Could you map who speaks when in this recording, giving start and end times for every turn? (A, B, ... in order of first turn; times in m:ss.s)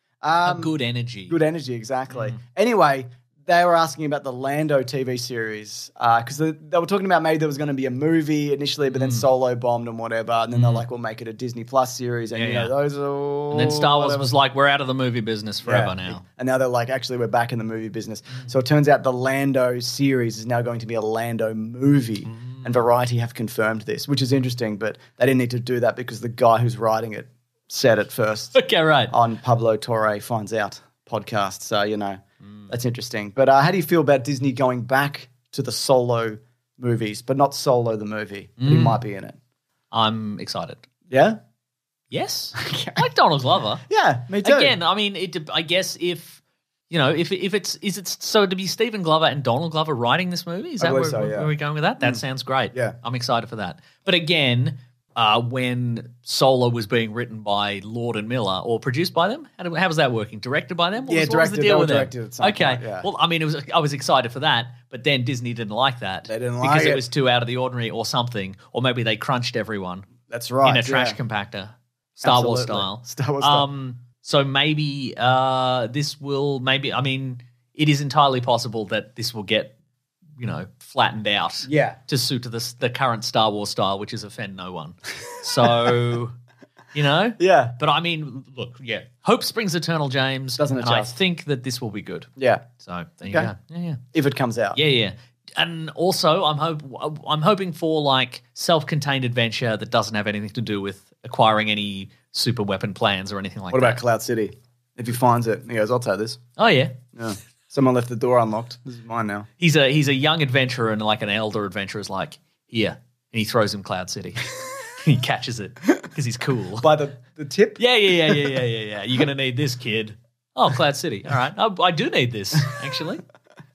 0:00.2-0:00.7 A
0:00.4-0:01.3 B
0:01.3-0:14.3 A
0:08.9-0:09.2 B
0:10.5-0:10.8 B
0:12.3-0:12.7 B
0:13.5-0:16.2 B
0:15.6-0:28.6 A
0:22.3-0:22.7 B
0:28.5-0:29.1 B
0:29.1-0:39.4 A
0:38.6-0:39.0 B
0:39.9-0:40.8 B
0:41.1-0:41.4 A
0:42.1-0:43.8 B
0:42.6-0:43.0 A
0:43.9-0:44.8 A
0:44.4-1:10.1 B
0:50.8-0:51.5 A
1:01.0-1:03.1 A
1:06.3-1:07.0 A
1:10.3-1:11.2 A
1:10.6-1:19.7 B
1:12.2-1:13.6 A
1:20.4-1:26.3 B
1:21.7-1:22.0 A
1:25.6-1:25.9 A
1:26.9-1:34.0 B
1:27.4-1:27.8 A
1:30.6-1:31.2 A
1:32.4-1:32.6 A
1:34.1-1:34.8 A
1:34.7-1:44.0 B
1:43.7-1:46.4 A
1:46.6-1:47.0 B
1:47.1-1:49.5 A
1:49.6-1:56.9 B
1:56.8-1:58.6 A
1:57.8-2:03.2 B